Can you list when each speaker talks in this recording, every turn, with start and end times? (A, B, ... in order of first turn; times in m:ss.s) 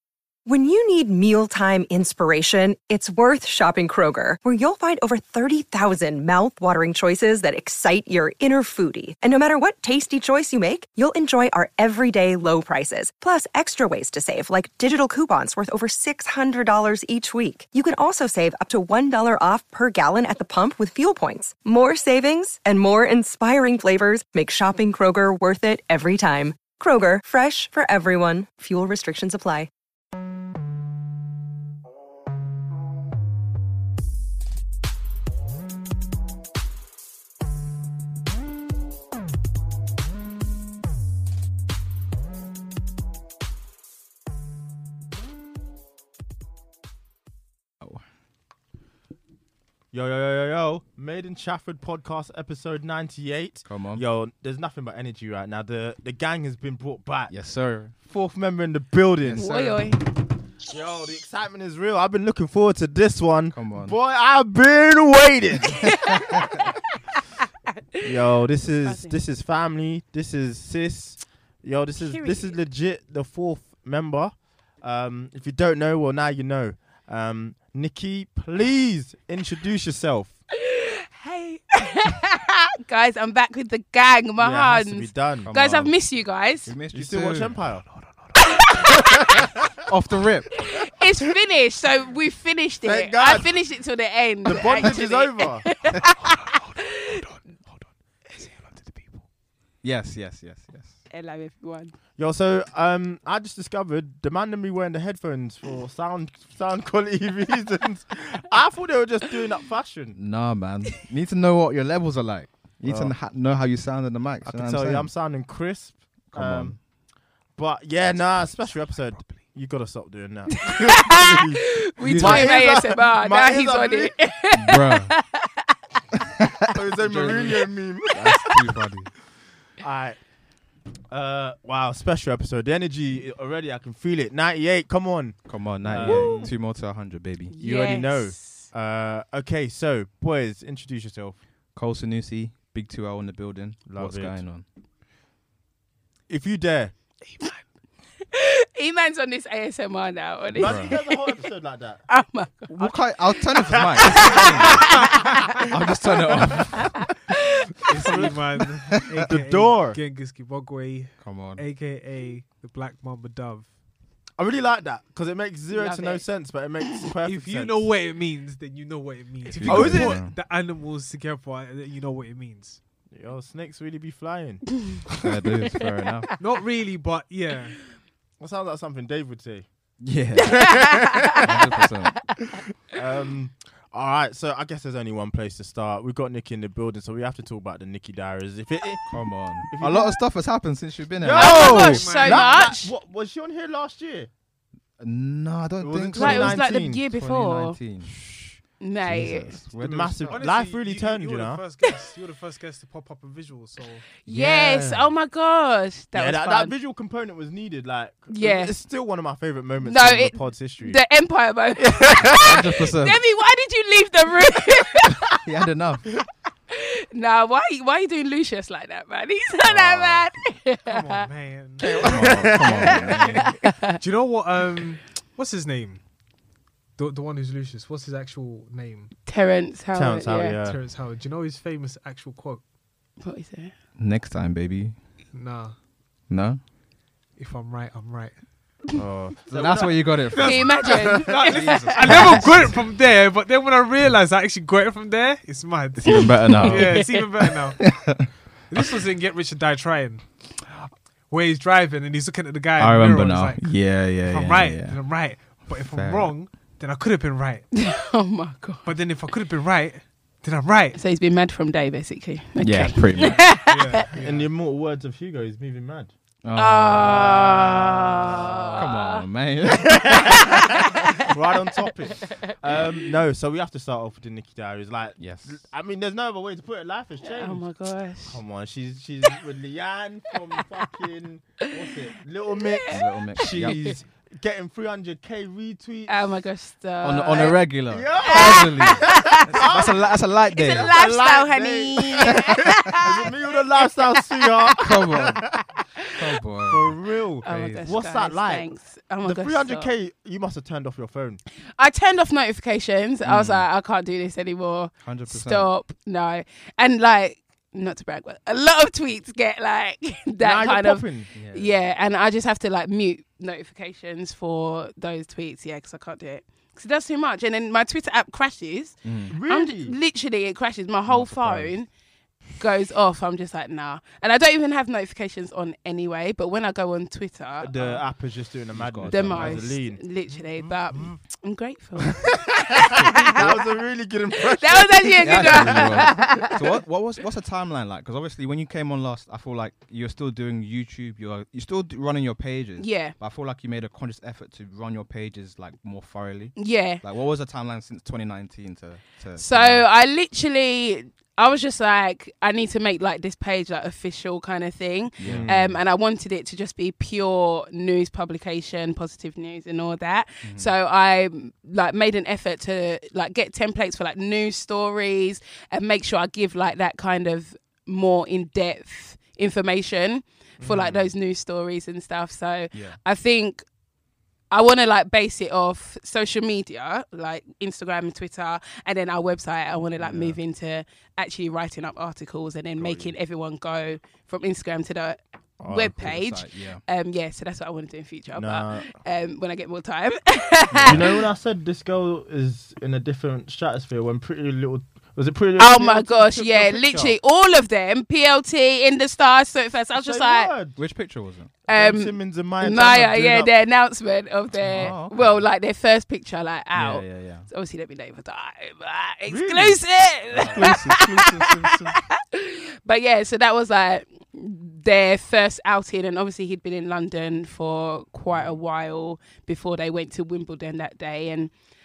0:00.4-0:29.7 A
0:49.9-0:57.3 B
0:53.6-0:54.0 C
0:57.3-0:57.9 C
0:58.0-0:59.8 B
0:59.2-0:59.7 C
0:59.3-1:00.0 D
1:00.6-1:06.2 B
1:03.5-1:04.0 C
1:05.9-1:06.2 D
1:08.0-1:20.3 B
1:08.8-1:09.2 D
1:12.0-1:12.6 D
1:20.6-1:26.7 D
1:24.4-1:25.5 B
1:25.4-1:26.0 C
1:26.6-1:27.6 C
1:26.9-1:27.9 B
1:28.4-1:29.2 D
1:29.8-1:30.5 C
1:30.6-1:37.1 D
1:32.8-1:33.5 B
1:34.4-1:35.8 B
1:36.2-1:36.6 E
1:38.4-1:39.2 E
1:39.8-1:41.0 C
1:41.1-1:42.0 D
1:42.2-1:50.2 B
1:50.2-1:55.1 C
1:52.8-1:53.1 B
1:54.4-1:56.8 B
1:56.3-1:56.8 C
1:57.5-2:04.1 B
2:00.7-2:05.6 D
2:02.0-2:02.6 C
2:04.5-2:05.1 C
2:06.7-2:08.5 B
2:06.8-2:09.1 C
2:09.8-2:10.2 B
2:11.1-2:16.5 B
2:15.4-2:17.5 C
2:17.5-2:18.7 D
2:17.6-2:21.4 B
2:21.7-2:24.6 C
2:23.9-2:24.4 B
2:26.3-2:26.9 B
2:28.3-2:31.4 D
2:30.5-2:32.0 B
2:30.6-2:30.9 C
2:32.1-2:32.7 D
2:32.7-2:37.0 C
2:33.5-2:35.6 B
2:34.1-2:35.3 D
2:37.9-2:43.7 E
2:38.0-2:38.3 B
2:39.2-2:40.0 B
2:41.2-2:41.6 C
2:44.4-2:47.9 B
2:45.7-2:46.2 D
2:47.2-2:52.8 E
2:49.5-2:50.3 C
2:49.6-2:50.2 B
2:53.1-2:55.2 B
2:55.2-2:56.3 C
2:56.4-2:57.8 E
2:58.4-2:59.7 B
3:00.0-3:02.3 C
3:00.4-3:01.5 B
3:00.7-3:01.4 D
3:02.8-3:09.1 B
3:09.1-3:12.0 C
3:09.6-3:10.1 B
3:11.2-3:14.3 B
3:11.3-3:12.9 D
3:11.4-3:12.6 E
3:15.0-3:20.4 C
3:15.8-3:17.0 B
3:16.1-3:17.8 D
3:18.8-3:19.5 D
3:19.8-3:21.6 B
3:20.2-3:24.0 E
3:24.2-3:26.7 D
3:24.3-3:25.0 C
3:26.1-3:31.0 B
3:28.3-3:28.7 D
3:29.8-3:35.2 D
3:31.8-3:32.4 B
3:32.3-3:33.2 C
3:35.2-3:36.1 C
3:36.7-3:41.2 D
3:39.6-3:40.2 B
3:40.8-3:42.5 E
3:41.8-3:43.0 B
3:42.0-3:43.6 C
3:43.3-3:44.0 D
3:44.0-3:46.0 E
3:47.0-3:49.1 E
3:49.2-3:50.6 D
3:49.9-3:50.8 B
3:50.6-3:52.6 E
3:53.2-3:53.7 D
3:54.0-3:55.0 C
3:55.3-3:55.7 E
3:56.3-3:56.6 C
3:57.4-3:58.3 E
3:58.9-4:00.0 B
3:59.5-4:02.9 C
4:00.3-4:07.9 E
4:00.4-4:02.5 D
4:00.9-4:01.2 B
4:06.0-4:08.3 C
4:06.1-4:07.3 D
4:08.7-4:10.2 E
4:11.3-4:17.7 E
4:12.8-4:15.0 C
4:15.7-4:16.3 C
4:17.7-4:18.9 D
4:18.8-4:21.0 E
4:20.9-4:24.0 D
4:22.6-4:23.6 C
4:23.2-4:24.5 E
4:24.2-4:26.1 B
4:26.4-4:27.7 C
4:26.5-4:29.2 D
4:27.0-4:27.8 B
4:28.8-4:30.4 C
4:29.7-4:37.6 B
4:30.1-4:31.3 D
4:35.2-4:35.6 C
4:37.2-4:38.4 D
4:38.3-4:46.3 B
4:42.6-4:43.9 D
4:42.9-4:43.9 C
4:46.1-4:49.6 D
4:47.0-4:50.9 C
4:47.9-4:55.5 B
4:50.5-4:53.8 D
4:54.8-4:55.6 C
4:56.2-4:57.8 C
4:56.7-4:58.7 B
4:57.4-4:59.9 D
4:59.2-5:01.4 B
5:01.8-5:21.9 D
5:03.2-5:03.6 C
5:05.0-5:05.7 C
5:10.4-5:11.3 B
5:11.3-5:11.8 C
5:19.0-5:19.3 C
5:19.3-5:19.9 B
5:21.1-5:21.7 B
5:22.6-5:28.0 D
5:27.6-5:30.0 B
5:28.7-5:29.6 C
5:29.1-5:33.6 D
5:30.7-5:31.2 B
5:32.2-5:36.4 B
5:34.4-5:36.6 D
5:35.2-5:49.8 C
5:42.8-5:43.1 D
5:46.6-5:47.0 D
5:49.4-6:13.6 D
5:55.2-5:55.8 C
5:55.2-5:55.6 B
6:00.4-6:00.7 C
6:10.6-6:11.1 B
6:14.5-6:31.2 D
6:20.0-6:20.4 B
6:22.8-6:23.1 B
6:25.6-6:25.9 B
6:25.9-6:26.8 C
6:28.3-6:28.9 B
6:30.8-6:31.0 C
6:30.8-6:37.2 B
6:35.6-6:40.5 D
6:40.0-6:40.8 B
6:40.8-6:41.5 C
6:41.7-6:43.5 B
6:41.7-7:01.5 D
6:44.7-6:45.4 C
6:46.7-6:47.4 C
6:49.3-6:49.8 B
6:50.3-6:52.0 C
6:50.4-6:50.8 B